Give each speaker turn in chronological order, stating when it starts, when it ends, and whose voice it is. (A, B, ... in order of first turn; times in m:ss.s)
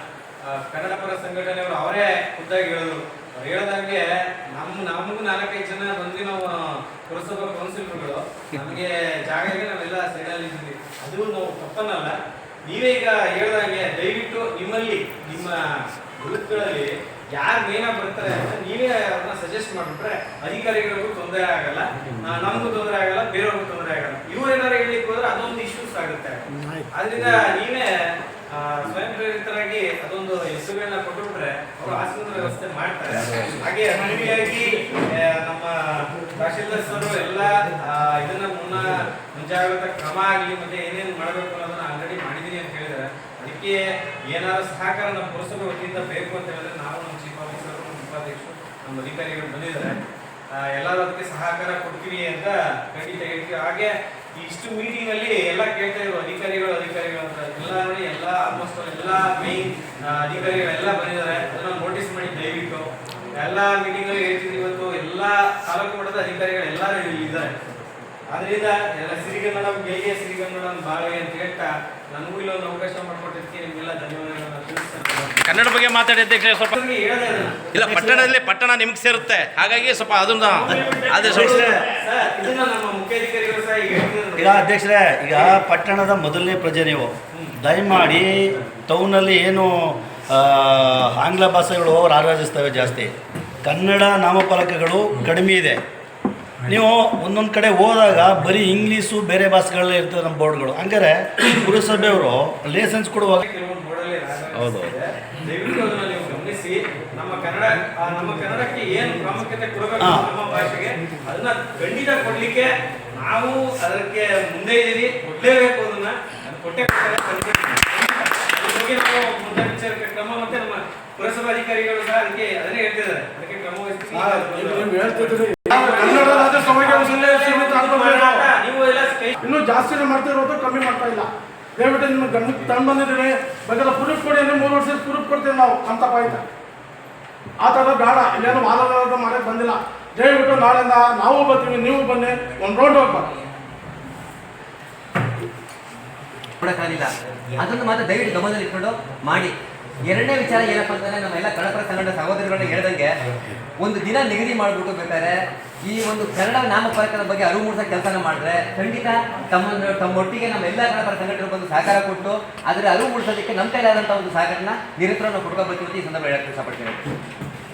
0:00.4-0:50.0 A
0:50.5-1:07.5 A
1:08.3-1:15.6 A
1:15.4-1:16.7 B
1:16.6-1:18.0 A
1:17.7-1:21.8 B
1:20.4-1:24.7 A
1:20.7-1:21.8 C
1:24.4-1:33.1 C
1:25.3-1:25.6 A
1:33.6-1:35.8 C
1:36.6-1:43.4 C
1:43.4-2:09.3 A
1:50.0-1:50.3 C
2:04.1-2:08.5 D
2:09.4-2:16.4 D
2:17.6-2:23.3 D
2:26.6-2:33.1 E
2:33.8-2:47.0 E